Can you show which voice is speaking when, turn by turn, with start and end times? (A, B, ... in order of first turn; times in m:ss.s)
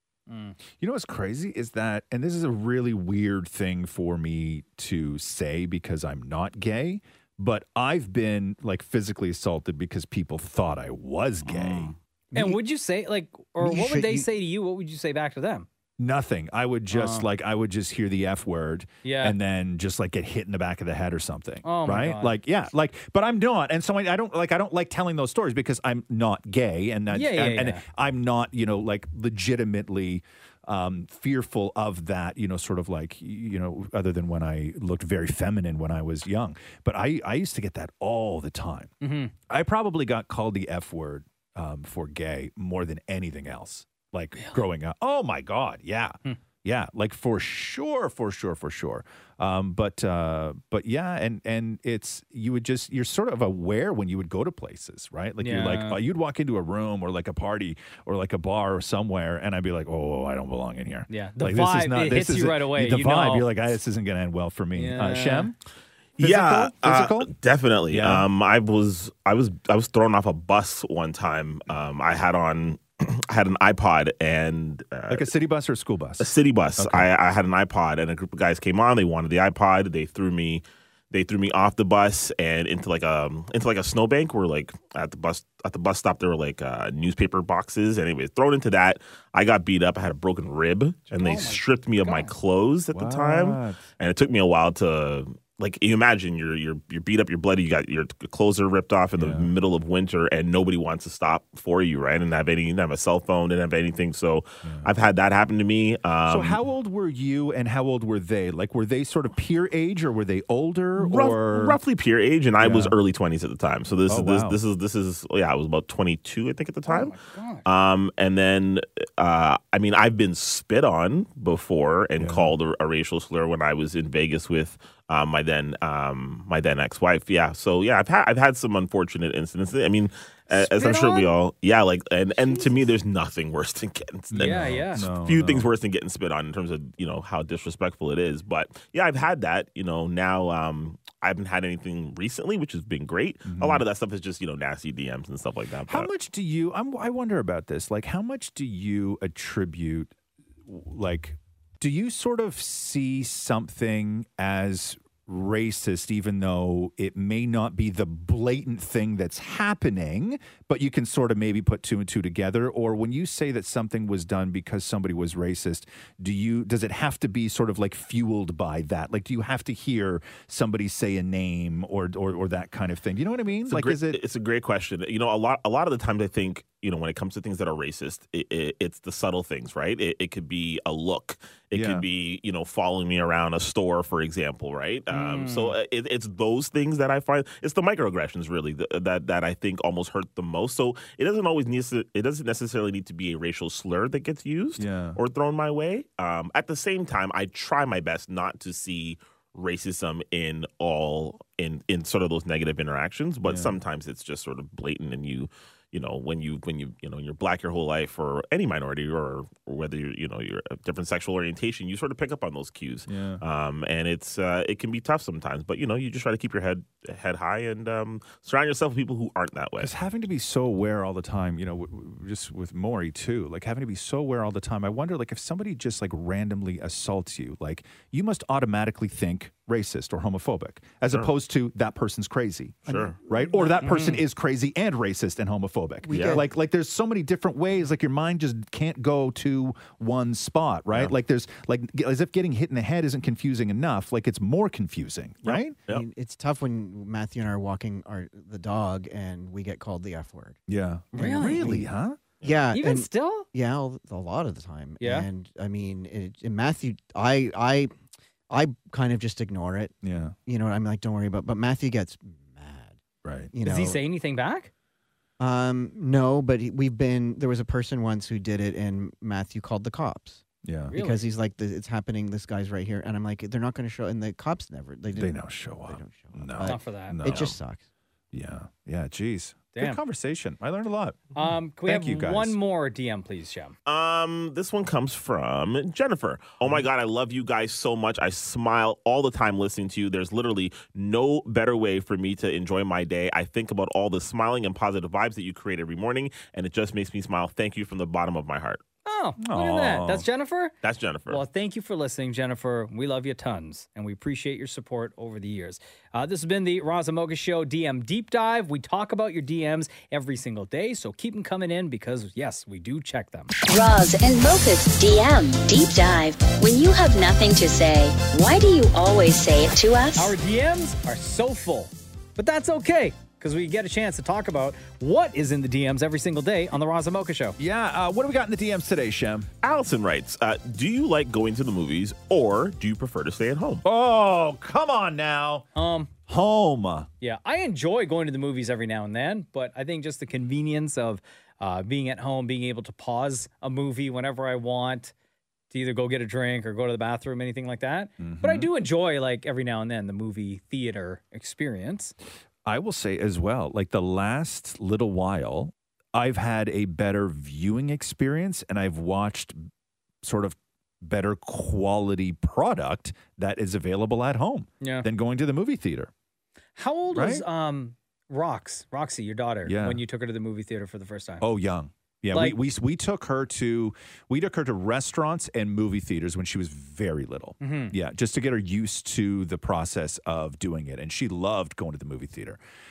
0:00.3-0:00.6 A
0:00.8-0:12.0 B
0:11.5-0:15.7 A
0:12.3-0:12.6 C
0:13.6-0:14.3 C
0:16.0-0:38.9 B
0:16.9-0:17.3 A
0:19.0-0:19.4 A
0:21.6-0:22.4 A
0:27.1-0:27.8 A
0:39.0-0:39.3 A
0:39.5-1:05.6 B
0:55.4-0:56.0 A
1:01.1-1:03.5 A
1:04.8-1:05.5 A
1:06.2-1:15.3 D
1:06.2-1:07.3 B
1:07.9-1:08.3 B
1:15.1-1:17.1 B
1:16.2-1:46.6 D
1:31.2-1:32.3 A
1:32.9-1:33.8 B
1:39.2-1:39.5 B
1:44.6-1:44.9 B
1:46.3-1:51.8 B
1:51.0-2:26.1 D
1:52.6-1:53.0 B
1:54.1-1:54.6 B
1:56.9-1:57.6 A
2:02.2-2:02.6 B
2:10.5-2:11.3 B
2:14.3-2:15.7 B
2:14.4-2:15.0 A
2:23.5-2:23.8 B
2:25.9-2:30.1 B
2:30.6-2:54.2 B
2:53.7-3:39.9 D
3:01.7-3:02.0 B
3:05.1-3:05.8 A
3:14.8-3:15.2 B
3:23.4-3:23.8 B
3:33.1-3:33.4 B
3:39.8-4:05.8 B
3:52.9-3:53.2 D
3:52.9-3:53.5 C
3:53.8-3:54.2 A
3:56.0-3:56.4 C
3:56.1-3:56.4 D
4:05.4-4:06.1 D
4:05.9-4:10.6 C
4:10.7-4:12.2 B
4:11.2-4:11.9 C
4:11.2-4:11.8 A
4:12.4-4:17.9 C
4:12.7-4:13.5 A
4:15.0-4:15.3 A
4:18.5-4:20.0 C
4:20.0-4:20.4 B
4:20.5-4:23.0 C
4:23.2-4:23.5 B
4:23.5-4:24.0 C
4:23.6-4:24.7 A
4:25.4-4:37.8 C
4:30.6-4:30.9 B
4:30.9-4:31.3 A
4:35.1-4:37.6 B
4:36.6-4:37.2 A
4:38.3-4:42.6 B
4:39.8-4:40.0 A
4:41.4-4:43.7 A
4:43.9-4:58.8 D
4:59.0-5:00.7 A
4:59.4-5:00.3 B
5:00.8-5:01.4 D
5:01.3-5:13.5 A
5:13.7-5:20.3 E
5:20.2-5:27.6 A
5:27.6-5:29.5 B
5:29.6-5:33.8 D
5:33.8-5:35.7 B
5:35.8-5:36.1 A
5:36.3-5:37.1 B
5:37.2-5:45.1 A
5:45.7-5:52.1 A
5:48.2-5:48.7 B
5:52.6-5:59.6 B
6:00.2-6:06.1 B
6:04.8-6:05.1 A
6:06.8-6:11.4 A
6:07.1-6:07.4 B
6:09.6-6:10.0 B
6:11.4-6:22.6 B
6:12.3-6:12.6 A
6:17.6-6:17.9 A